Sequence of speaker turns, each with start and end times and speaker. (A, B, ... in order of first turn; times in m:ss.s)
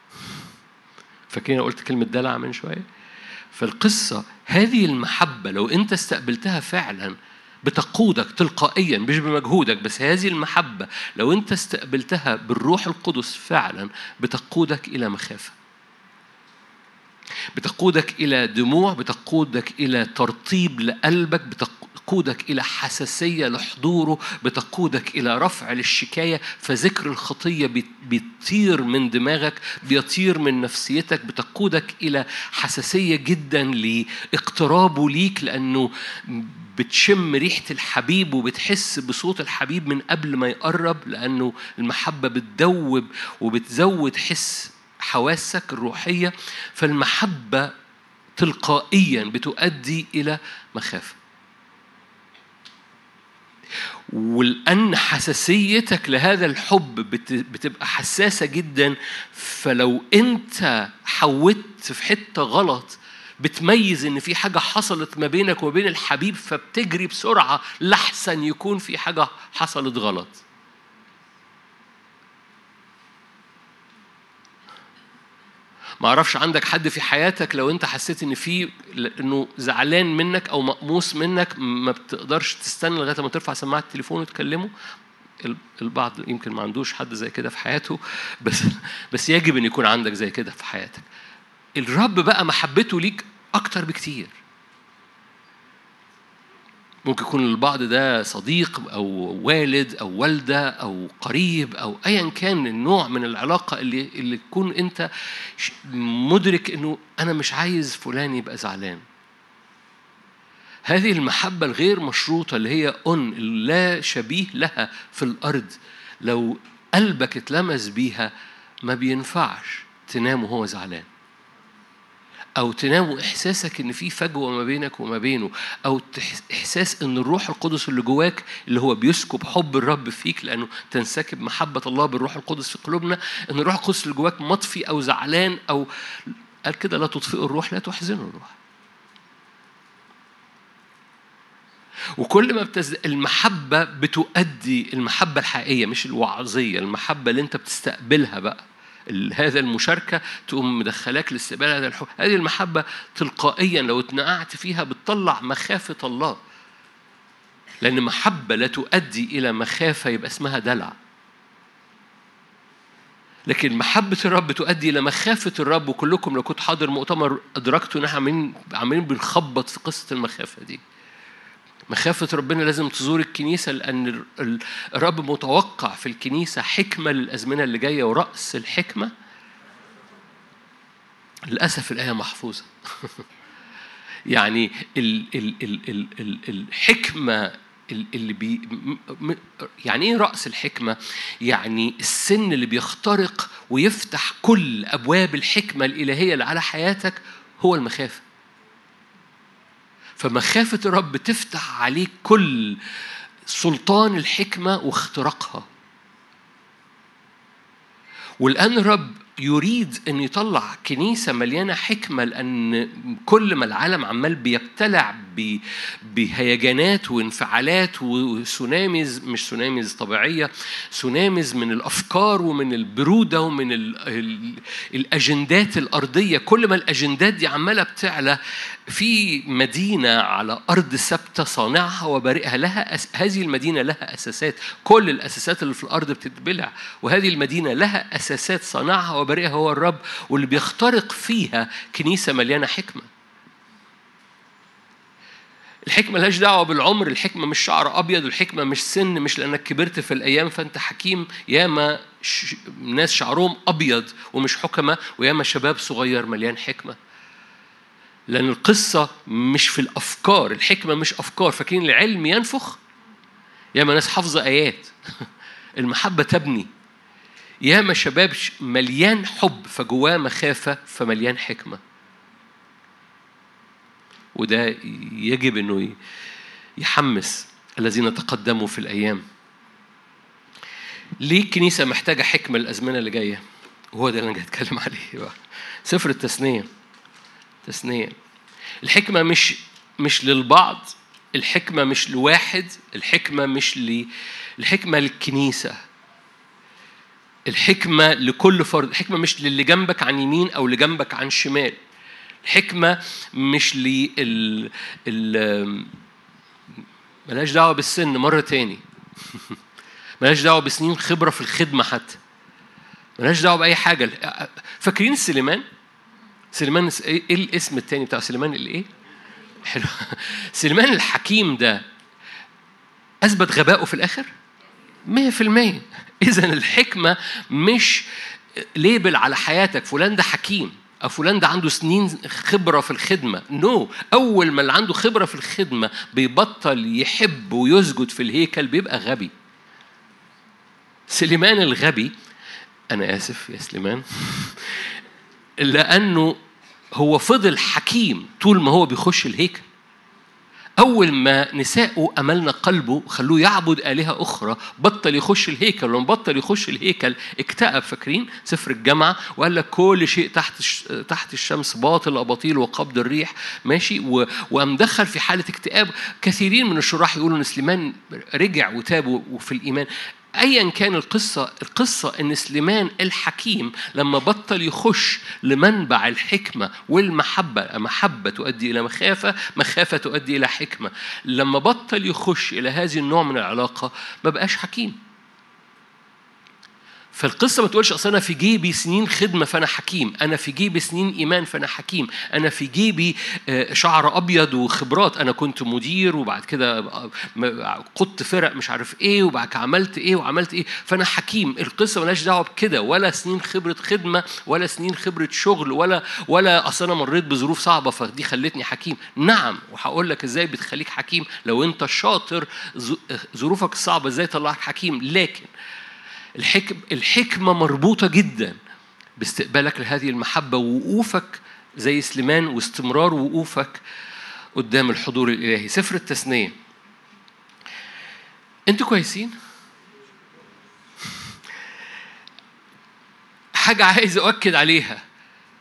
0:01.3-0:02.8 A
0:03.5-0:15.5 A
0:17.5-0:47.7 A
0:48.4-0:51.2 A
0:54.1-1:10.4 A
1:16.0-1:24.7 A
1:25.4-1:31.0 A
1:31.8-1:34.4 A
1:37.0-1:49.0 A
1:50.9-1:58.3 A
1:58.9-2:01.1 A
2:02.6-2:15.9 A
2:16.6-2:18.5 A
2:22.2-2:36.4 A
2:37.8-2:40.9 A
2:43.5-2:50.8 A
2:51.9-2:59.1 A
3:01.5-3:03.1 A
3:04.3-3:18.2 A
3:20.2-3:22.8 A
3:23.5-3:25.6 A
3:28.4-3:48.4 A
3:48.9-4:03.1 A
4:05.9-4:17.0 A
4:18.3-4:22.8 A
4:23.8-4:24.9 A
4:25.8-4:26.7 A
4:27.6-4:31.8 A
4:34.4-4:36.0 A
4:36.8-4:39.2 A
4:41.2-4:43.4 A
4:44.0-4:46.7 A
4:47.6-4:48.1 A
4:48.8-4:54.1 A
4:54.6-4:55.8 A
4:57.5-5:01.8 A
5:02.4-5:05.9 A
5:07.3-5:09.5 A
5:10.2-5:12.2 A
5:13.2-5:15.6 A
5:16.5-5:18.9 A
5:19.6-5:21.8 A
5:23.2-5:24.3 A
5:25.1-5:28.0 A
5:28.6-5:39.3 A
5:41.1-5:42.1 A
5:42.9-5:44.9 A
5:45.6-5:46.4 A
5:47.0-5:49.6 A
5:50.8-6:25.0 A
6:27.2-6:55.5 A
6:56.4-6:58.6 A
6:59.2-7:03.8 A
7:04.6-7:06.5 A
7:08.7-7:09.4 A
7:13.6-7:15.0 A